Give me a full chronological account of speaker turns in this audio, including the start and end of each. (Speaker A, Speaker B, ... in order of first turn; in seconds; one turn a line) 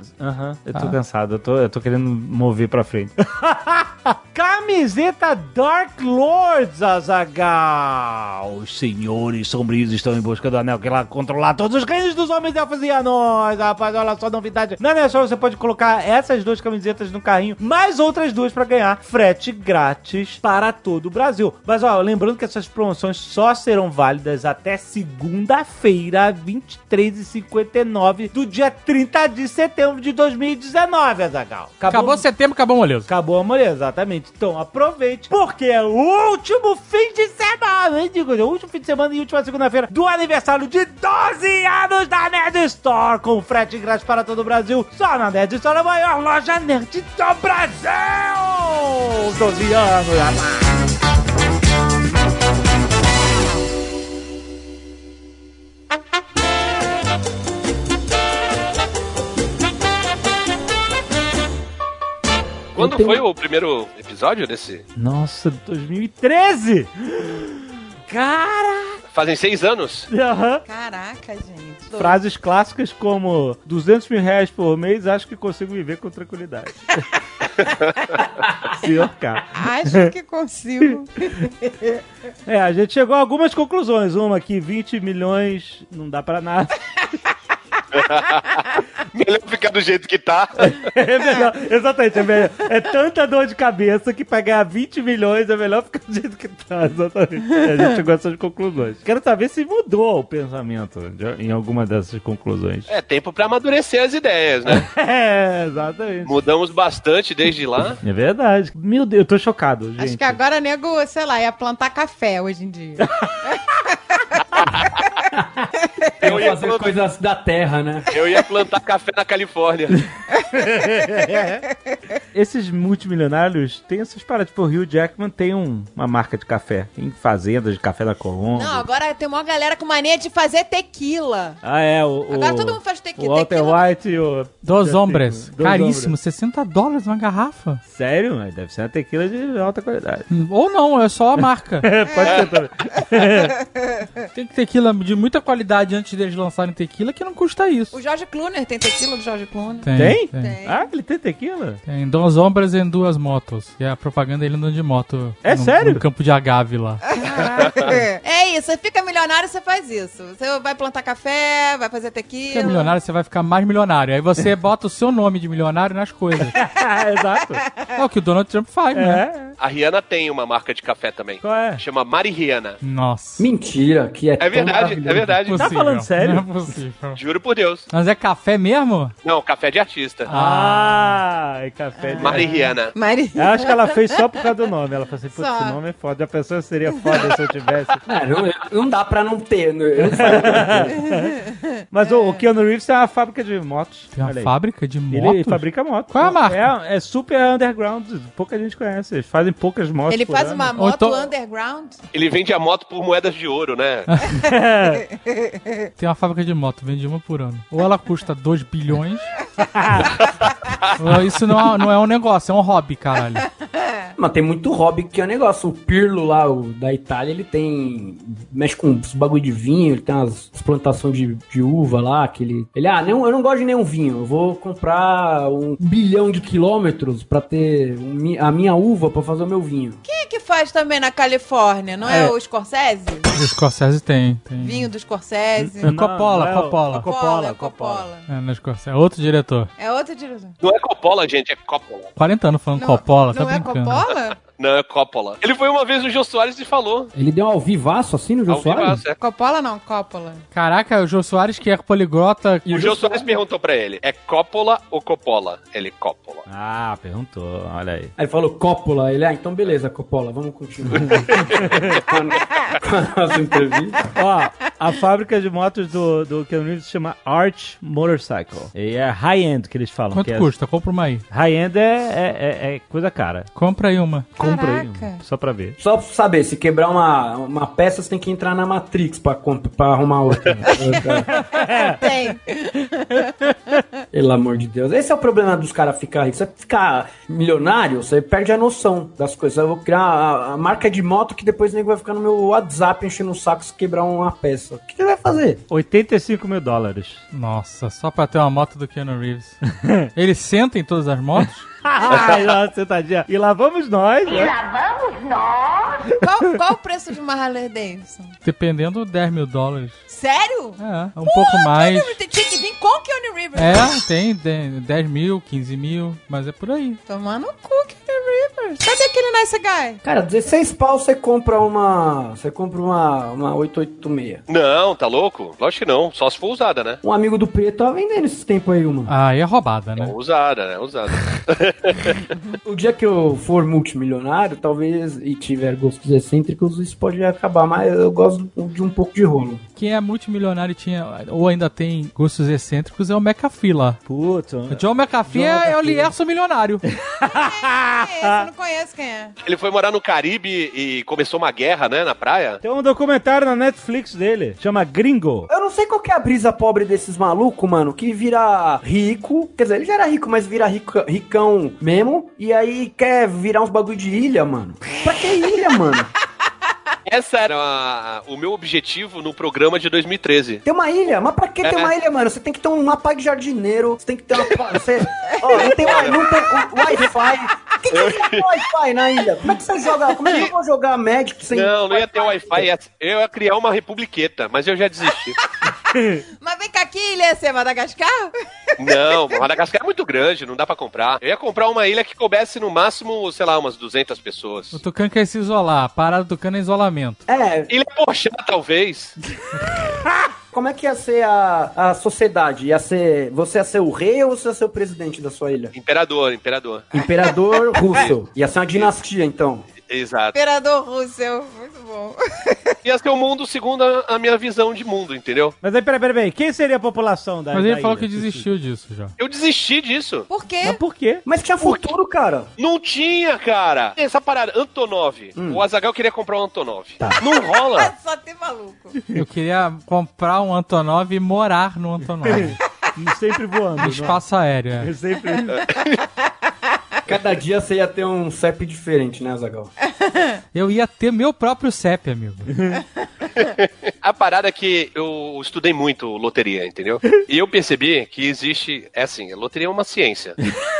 Speaker A: 0.2-32.2
Speaker B: 31.9-33.1
Speaker A: 33.1-50.8
Speaker C: 62.8-64.8
Speaker D: 62.8-63.2
Speaker A: 65.0-69.0
Speaker C: 69.1-70.1
Speaker A: 70.1-70.6
Speaker E: 70.7-72.2
Speaker A: 71.9-77.1
Speaker A: 78.7-80.1
Speaker E: 79.5-81.9
Speaker A: 80.8-81.5
Speaker A: 82.5-86.8
Speaker C: 87.9-88.6
Speaker C: 89.1-90.8
Speaker A: 90.6-102.9
Speaker C: 102.9-104.8
Speaker A: 104.7-106.3
Speaker C: 106.2-108.0
Speaker A: 108.0-110.4
Speaker E: 110.0-114.2
Speaker A: 113.0-113.3
Speaker D: 115.4-115.7
Speaker D: 116.2-118.1
Speaker C: 116.2-116.9
Speaker C: 118.1-120.0
Speaker E: 120.4-120.6
Speaker A: 120.5-121.7
Speaker A: 122.3-128.9
Speaker E: 128.5-131.6
Speaker A: 131.6-136.1
Speaker E: 132.3-133.9
Speaker B: 134.6-137.8
Speaker A: 137.9-140.3
Speaker B: 140.3-141.9
Speaker A: 141.8-143.6
Speaker E: 142.1-142.4
Speaker B: 144.3-147.9
Speaker E: 147.9-150.9
Speaker B: 149.8-150.5
Speaker A: 149.9-151.8
Speaker B: 151.9-157.0
Speaker A: 155.4-156.0
Speaker E: 157.1-162.9
Speaker A: 157.3-158.0
Speaker B: 162.5-166.6
Speaker A: 166.4-167.6
Speaker B: 167.9-169.2
Speaker A: 168.9-169.5
Speaker C: 169.6-172.8
Speaker A: 171.4-171.8
Speaker B: 172.8-173.4
Speaker D: 173.4-175.4
Speaker C: 174.4-175.7
Speaker B: 175.4-177.2
Speaker A: 175.5-176.5
Speaker C: 177.1-177.9
Speaker B: 177.9-179.1
Speaker C: 179.2-180.3
Speaker B: 180.2-181.2
Speaker A: 180.3-182.7
Speaker E: 182.0-184.1
Speaker C: 182.2-182.9
Speaker A: 183.3-188.0
Speaker E: 185.3-185.8
Speaker D: 188.1-191.0
Speaker A: 190.2-191.4
Speaker E: 191.1-192.4
Speaker A: 191.9-194.5
Speaker B: 194.1-196.7
Speaker A: 195.1-200.7
Speaker E: 200.1-202.0
Speaker B: 200.8-201.3
Speaker C: 202.1-204.1
Speaker A: 204.3-205.0
Speaker B: 206.0-209.3
Speaker A: 209.6-210.1
Speaker B: 210.9-213.4
Speaker D: 214.2-230.0
Speaker E: 230.0-233.3
Speaker A: 232.0-232.3
Speaker B: 233.3-234.9
Speaker E: 234.6-235.9
Speaker A: 235.6-238.1
Speaker B: 235.8-237.1
Speaker E: 236.9-238.2
Speaker B: 238.3-239.7
Speaker E: 239.8-240.5
Speaker C: 240.6-242.1
Speaker B: 242.2-244.0
Speaker E: 242.8-244.4
Speaker C: 244.4-247.1
Speaker D: 247.1-249.0
Speaker C: 248.5-249.2
Speaker E: 249.1-250.4
Speaker B: 250.5-252.7
Speaker D: 252.7-253.4
Speaker C: 252.7-256.4
Speaker A: 256.5-258.1
Speaker D: 258.2-264.1
Speaker C: 261.3-261.6
Speaker A: 264.1-270.5
Speaker B: 270.1-271.2
Speaker A: 271.3-273.5
Speaker B: 273.6-274.3
Speaker E: 274.4-275.2
Speaker A: 274.4-275.8
Speaker D: 275.8-281.3
Speaker E: 281.4-283.8
Speaker A: 281.4-282.0
Speaker D: 284.1-295.6
Speaker A: 295.7-297.2
Speaker B: 297.3-299.6
Speaker A: 299.7-300.1
Speaker B: 300.1-301.6
Speaker A: 301.4-304.6
Speaker C: 302.1-302.4
Speaker E: 306.1-308.3
Speaker B: 308.4-310.0
Speaker E: 310.1-313.9
Speaker B: 310.8-312.2
Speaker B: 313.5-317.0
Speaker E: 317.1-320.0
Speaker D: 320.0-324.4
Speaker C: 324.5-327.0
Speaker D: 327.0-329.1
Speaker B: 329.1-330.1
Speaker C: 330.0-332.2
Speaker D: 332.6-339.6
Speaker B: 339.8-344.0
Speaker A: 344.1-346.1
Speaker B: 344.7-346.8
Speaker E: 347.2-349.3
Speaker A: 347.2-348.5
Speaker C: 349.4-352.6
Speaker A: 352.6-355.5
Speaker D: 355.5-366.1
Speaker C: 367.1-370.6
Speaker D: 370.6-382.6
Speaker C: 371.6-371.9
Speaker C: 375.4-376.2
Speaker C: 377.9-378.6
Speaker C: 380.2-380.5
Speaker C: 381.5-385.4
Speaker A: 385.9-386.2
Speaker E: 386.4-388.3
Speaker C: 388.8-394.8
Speaker E: 388.9-389.4
Speaker B: 394.7-397.2
Speaker D: 397.3-397.7
Speaker C: 397.7-399.1
Speaker D: 400.5-405.7
Speaker C: 405.7-407.0
Speaker D: 406.9-409.6
Speaker C: 407.8-408.1
Speaker C: 409.9-410.3
Speaker E: 410.3-412.7
Speaker C: 412.8-415.6
Speaker A: 415.6-418.5
Speaker B: 417.5-419.1
Speaker C: 419.2-420.3
Speaker E: 420.3-420.8
Speaker A: 420.6-421.2
Speaker D: 421.2-422.5
Speaker C: 421.6-421.9
Speaker C: 422.6-427.9
Speaker D: 425.4-425.6
Speaker D: 427.0-427.2
Speaker E: 427.7-429.0
Speaker B: 429.1-432.6
Speaker A: 432.2-434.2
Speaker B: 433.8-434.9
Speaker A: 434.8-435.6
Speaker C: 435.5-436.0
Speaker D: 437.1-439.7
Speaker E: 440.0-440.4
Speaker B: 440.5-442.5
Speaker A: 442.5-442.8
Speaker C: 443.4-450.4